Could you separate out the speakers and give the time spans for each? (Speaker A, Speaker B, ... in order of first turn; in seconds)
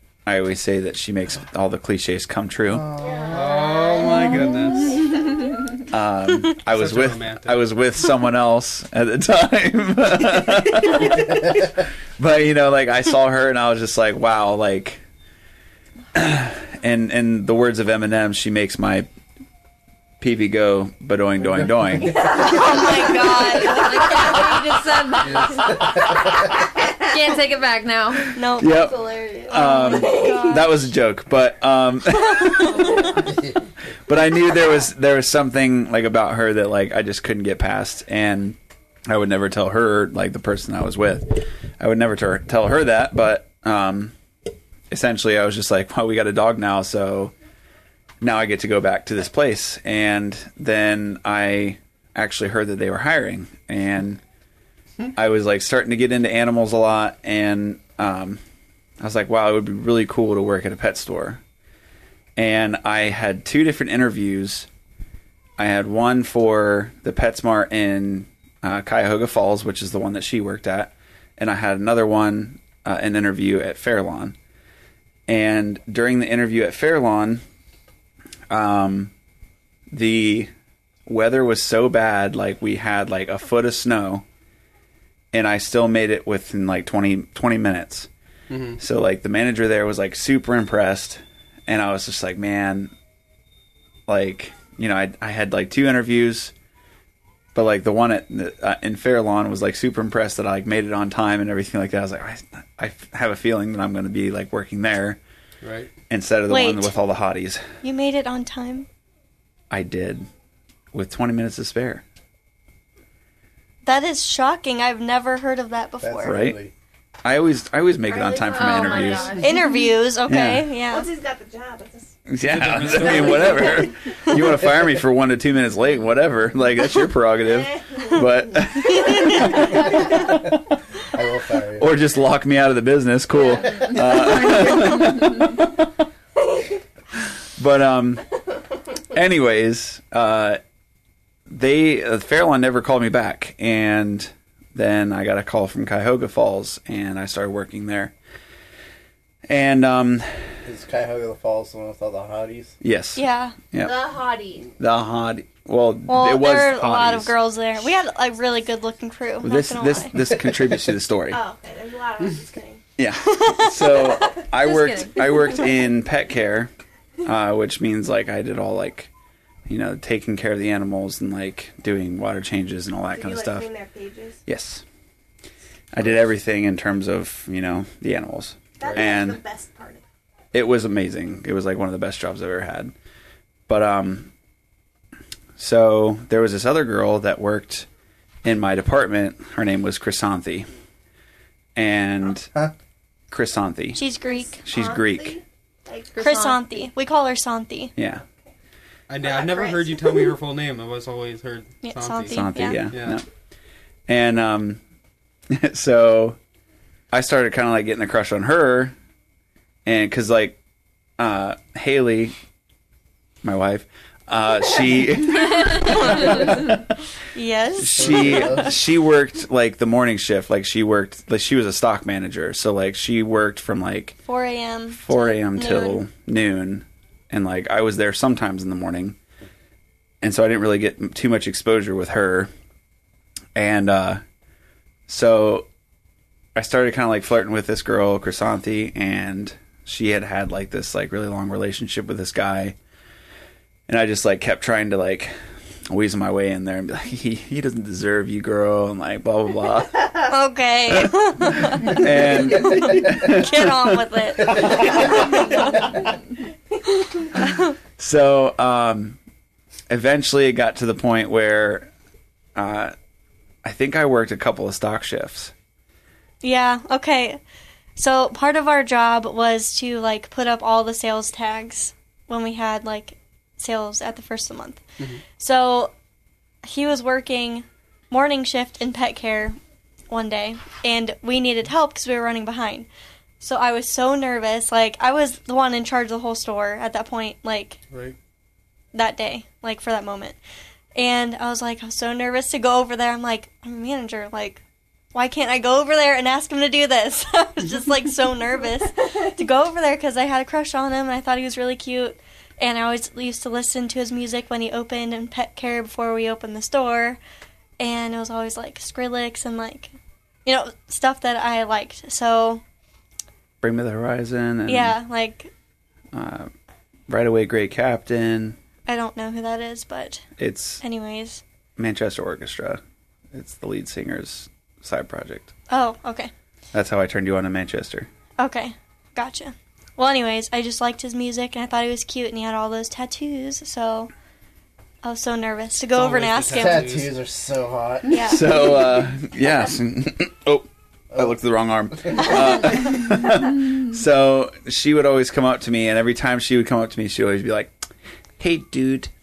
Speaker A: 0.2-2.9, 5.9-15.0, 16.1-19.1, 20.2-22.4, 25.8-26.1, 28.6-33.0, 34.1-44.1, 44.9-47.3, 48.2-54.2, 55.1-58.4, 59.0-61.4, 62.4-64.7, 65.6-74.3, 75.3-77.4, 78.5-79.1, 79.9-80.5, 81.0-84.2, 85.3-88.1, 88.8-92.9, 94.1-96.5, 97.5-105.2, 106.1-107.6, 109.7-110.3, 110.9-112.0, 116.2-116.6, 117.2-119.5, 120.3-120.7, 122.3-130.2, 131.8-136.0, 137.6-138.2, 139.1-140.6, 141.5-148.1, 149.5-150.6, 152.8-153.9, 154.8-157.3, 159.4-161.4, 163.0-166.7, 167.2-169.1, 169.7-173.7, 174.4-174.8, 175.9-179.4, 180.5-182.9, 183.7-184.3, 185.6-187.9, 188.4-190.7, 191.8-192.5, 193.3-194.0, 194.6-195.4, 197.9-198.2, 202.3-203.2, 204.1-204.8, 205.5-206.4, 207.1-208.9, 209.8-210.6, 211.2-212.3, 213.4-217.0, 217.8-224.2, 225.0-229.2, 230.2-232.5, 233.5-234.2, 235.1-235.7, 236.5-242.8, 243.9-245.3, 245.9-250.2, 250.9-254.0, 254.7-255.8, 257.5-259.2, 259.9-261.9, 262.5-262.9, 263.6-265.5, 313.6-314.9, 316.1-316.5, 317.1-318.6, 320.4-320.8, 321.8-322.8, 323.3-325.5, 326.7-328.1, 338.2-347.7, 348.4-349.1
Speaker B: 2.7-3.8, 25.2-26.2, 33.2-33.6, 116.0-116.7, 131.1-131.9, 150.6-152.8, 218.0-218.7, 336.5-338.3
Speaker C: 3.0-5.4, 22.1-24.6, 28.6-30.7, 32.7-33.2, 118.1-119.8, 120.9-122.1, 123.0-124.1, 127.4-130.1, 133.4-133.9, 153.8-154.7, 161.3-162.8, 173.1-174.4, 178.8-180.0, 194.2-196.9, 199.2-200.3, 299.0-299.3
Speaker D: 3.3-4.9, 6.7-7.6, 88.5-88.8, 105.6-105.9, 122.5-123.8, 178.8-179.2, 199.1-203.2, 287.9-288.1, 335.9-337.1
Speaker E: 4.1-4.9, 22.9-25.7, 27.0-28.4, 32.7-33.0, 118.5-119.6, 164.6-165.4
Speaker F: 22.4-24.4, 28.3-29.0, 29.5-30.8, 106.5-106.9, 107.8-108.9, 113.8-116.4, 119.4-121.1, 153.2-153.6, 156.1-160.2, 163.3-163.7, 193.9-194.6, 196.2-197.9, 201.8-202.9, 215.6-216.5, 217.3-218.7, 224.2-226.0, 250.3-255.8, 266.4-267.4, 267.9-275.9, 276.6-279.6, 280.1-282.9, 283.4-287.8, 288.9-290.4, 290.9-294.6, 295.1-307.2, 307.8-309.9, 310.4-312.6, 314.7-315.5, 318.9-320.3, 320.8-321.4, 325.7-326.3, 328.4-334.1, 335.0-336.9, 338.1-338.7